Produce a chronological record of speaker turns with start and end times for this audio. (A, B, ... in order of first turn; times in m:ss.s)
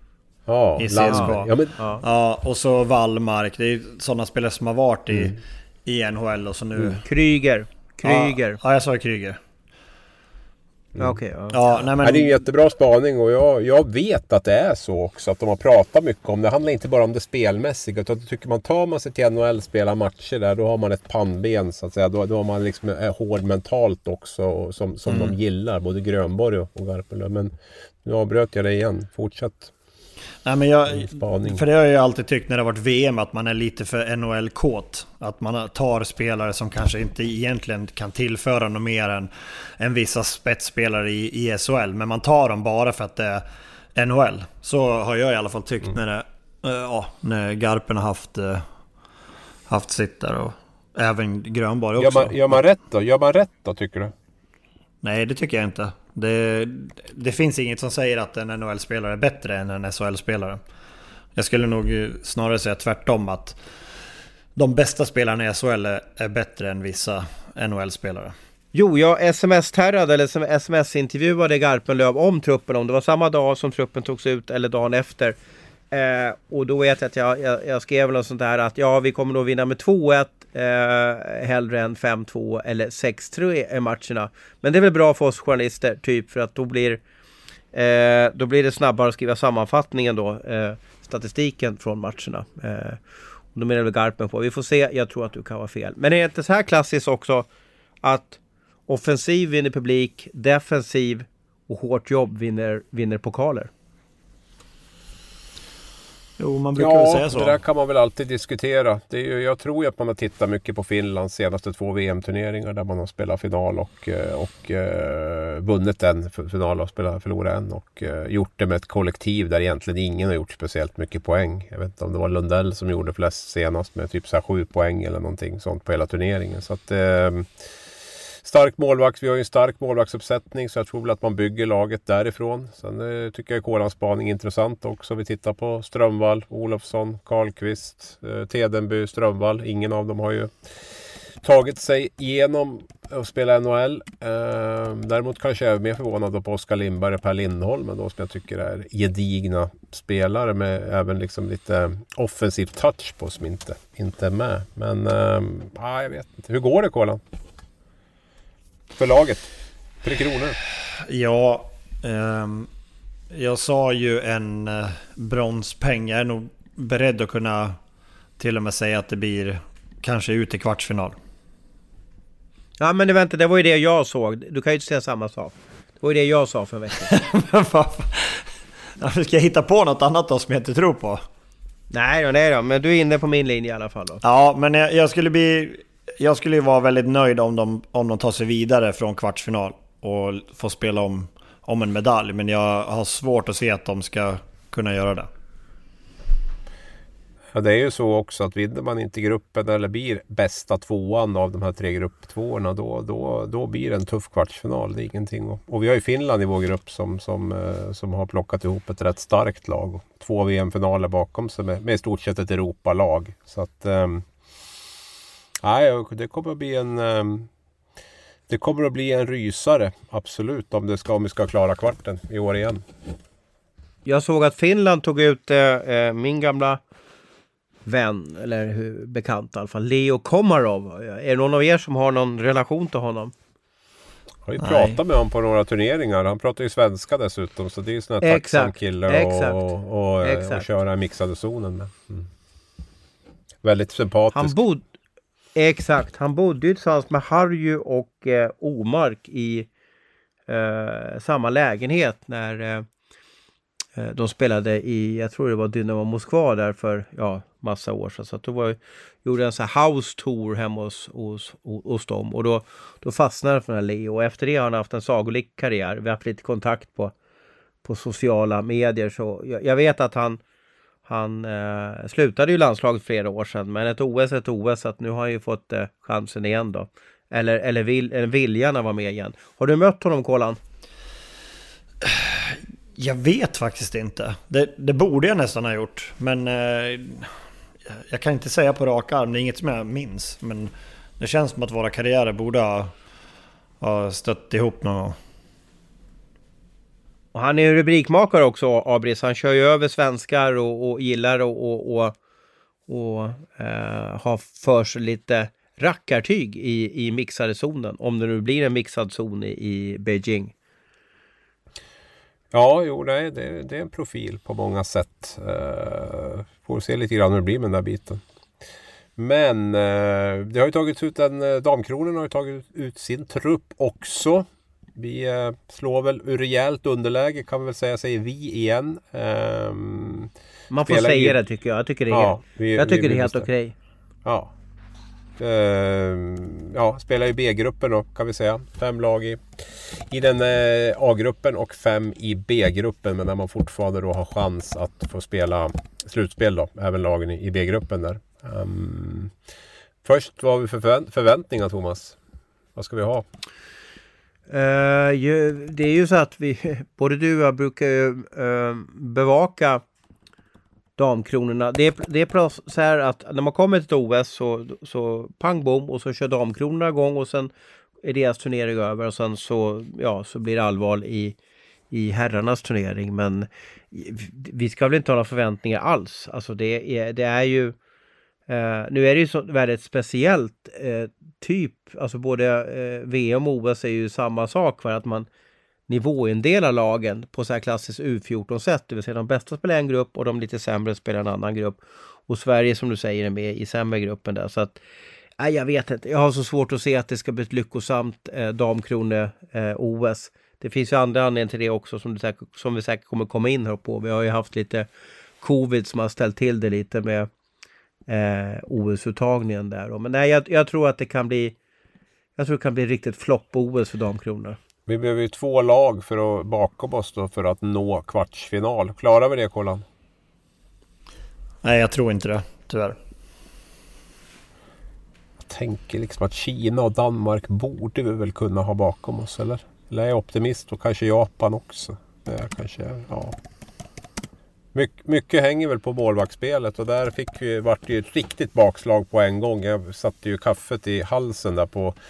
0:00.5-0:01.8 A
0:00.8-0:07.0 B
0:01.1-0:02.0 C
0:07.0-0:08.6 C
0:08.0-0:09.4 B
0:11.0-0:11.9 C
0:11.5-0:12.4 B
0:12.0-0:27.5 A
0:25.1-0:25.4 B
0:28.0-0:29.7 A
0:30.4-0:43.4 B
0:30.9-0:31.6 A
0:44.0-0:48.6 B
0:49.7-0:52.6 B
0:52.0-0:54.1 A
0:55.0-1:00.6 B
1:01.4-1:03.6 B
1:04.6-1:08.4 B
1:08.7-1:15.4 C
1:15.9-1:27.0 C
1:27.7-1:33.0 C
1:33.5-1:37.5 C
1:38.0-1:43.7 C
1:46.4-1:47.6 B
1:46.8-2:07.5 A
2:08.4-2:20.5 A
2:21.4-2:37.2 A
2:39.0-2:39.5 A
2:40.0-2:40.6 A
2:41.0-2:42.7 B
2:43.3-2:47.8 B
2:48.4-2:51.2 B
2:52.8-2:57.2 C
2:57.1-3:01.2 B
3:01.9-3:04.2 C
3:04.2-3:15.3 B
3:17.5-3:34.2 A
3:35.6-3:37.5 A
3:38.5-3:42.8 A
3:44.0-3:46.8 C
3:47.9-3:53.3 C
3:54.4-4:02.3 A
3:54.6-3:55.0 B
3:58.2-3:59.7 C
4:00.2-4:00.6 C
4:03.6-4:04.6 A
4:04.3-4:04.8 C
4:05.6-4:09.7 C
4:10.5-4:12.8 C
4:14.0-4:27.1 C
4:27.8-4:30.4 C
4:31.1-4:40.6 C
4:42.0-4:47.3 B
4:47.9-4:52.9 B
4:53.8-4:55.2 B
4:57.3-5:02.2 C
5:02.9-5:10.5 C
5:12.5-5:18.2 A
5:19.2-5:30.3 A
5:30.7-5:33.7 C
5:30.9-5:31.4 A
5:32.1-5:33.5 A
5:34.2-5:34.5 A
5:35.4-5:39.4 A
5:40.1-5:49.3 A
5:50.0-5:52.2 A
5:52.8-5:53.2 A
5:54.5-5:59.8 C
6:01.0-6:07.5 C
6:08.0-6:11.4 C
6:11.9-6:17.8 C
6:18.5-6:25.3 C
6:25.9-6:34.8 C
6:35.4-6:44.9 C
6:45.4-6:47.3 C
6:48.1-6:51.6 C
6:52.4-6:54.6 C
6:54.9-6:59.8 A
7:01.6-7:03.0 B
7:05.4-7:13.4 A
7:14.7-7:22.0 A